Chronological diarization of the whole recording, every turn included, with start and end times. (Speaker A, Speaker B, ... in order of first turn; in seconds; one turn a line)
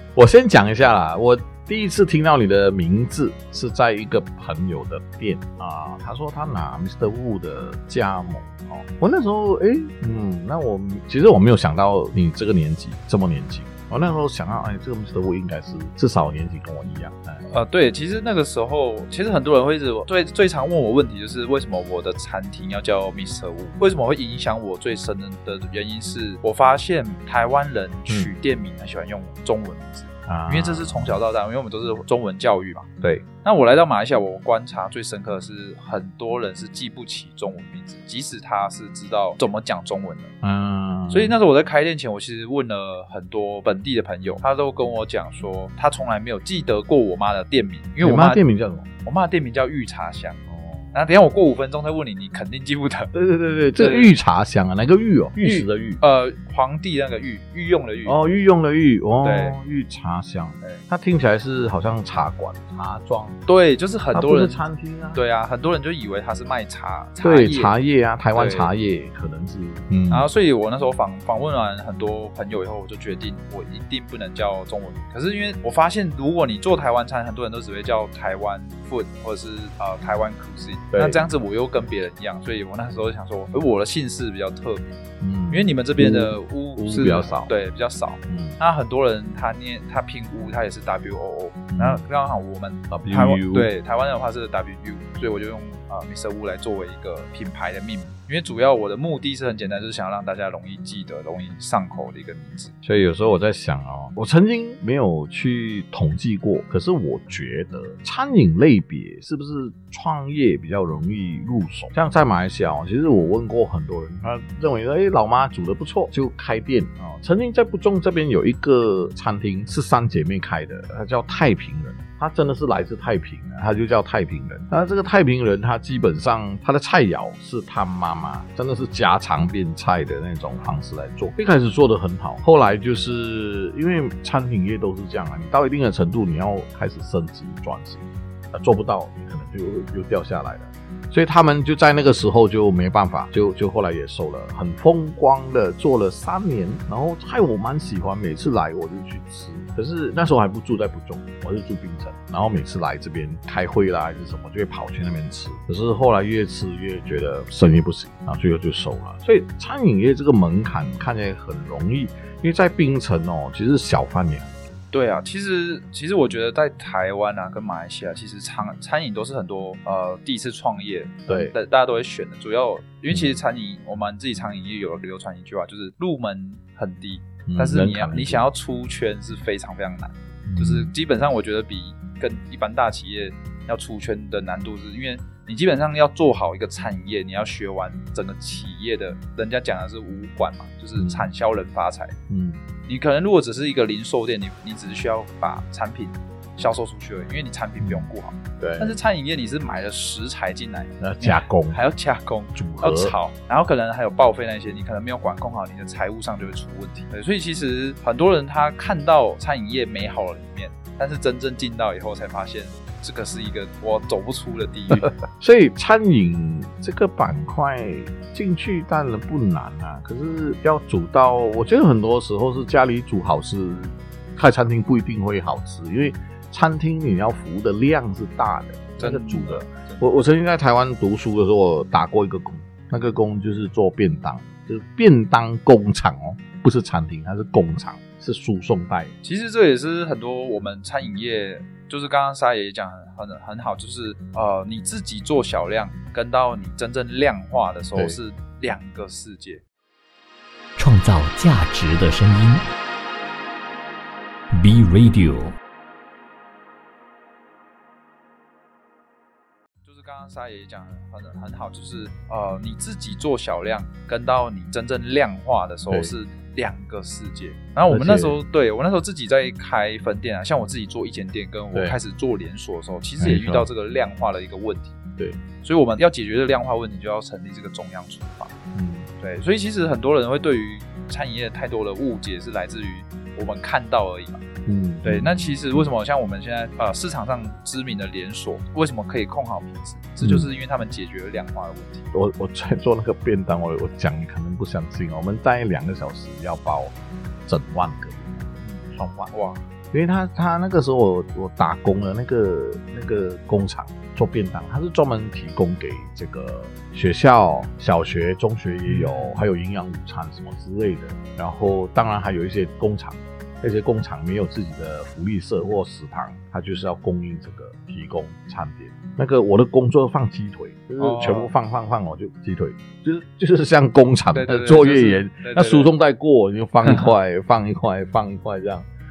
Speaker A: 0.1-17.4
Speaker B: 17.5-40.3
Speaker A: 30.3-31.2
Speaker A: 40.4-41.4
Speaker B: 41.1-48.4
Speaker A: 48.0-48.9
Speaker B: 49.0-50.4
Speaker A: 50.5-51.0
Speaker B: 50.9-53.1
Speaker A: 53.1-56.0
Speaker B: 53.8-54.1
Speaker B: 55.4-58.2
Speaker A: 58.1-63.4
Speaker B: 59.2-59.6
Speaker B: 63.5-64.6
Speaker A: 64.1-65.2
Speaker B: 65.1-67.7
Speaker A: 67.2-70.3
Speaker B: 68.3-68.7
Speaker B: 70.1-102.7
Speaker A: 80.9-81.2
Speaker A: 85.2-87.5
Speaker A: 88.3-88.6
Speaker A: 91.7-92.0
Speaker A: 92.9-93.7
Speaker A: 102.8-164.8
Speaker B: 164.9-192.2
Speaker A: 171.3-171.5
Speaker A: 173.1-173.4
Speaker A: 177.5-178.5
Speaker A: 180.5-180.9
Speaker A: 191.0-191.3
Speaker A: 192.3-192.6
Speaker B: 192.8-215.1
Speaker A: 197.8-198.9
Speaker A: 201.0-201.8
Speaker A: 202.6-203.2
Speaker A: 214.9-239.2
Speaker B: 229.0-230.1
Speaker B: 239.2-249.6
Speaker C: 250.8-252.6
Speaker C: 254.6-255.5
Speaker B: 259.8-275.0
Speaker A: 267.9-268.4
Speaker A: 273.2-273.7
Speaker B: 275.6-278.5
Speaker A: 278.7-279.1
Speaker B: 279.2-284.4
Speaker A: 284.7-285.9
Speaker B: 285.0-292.1
Speaker A: 290.2-290.5
Speaker A: 292.1-296.9
Speaker A: 297.5-299.3
Speaker B: 298.6-299.6
Speaker A: 299.9-328.9
Speaker B: 308.9-309.4
Speaker B: 321.0-321.5
Speaker B: 324.3-325.9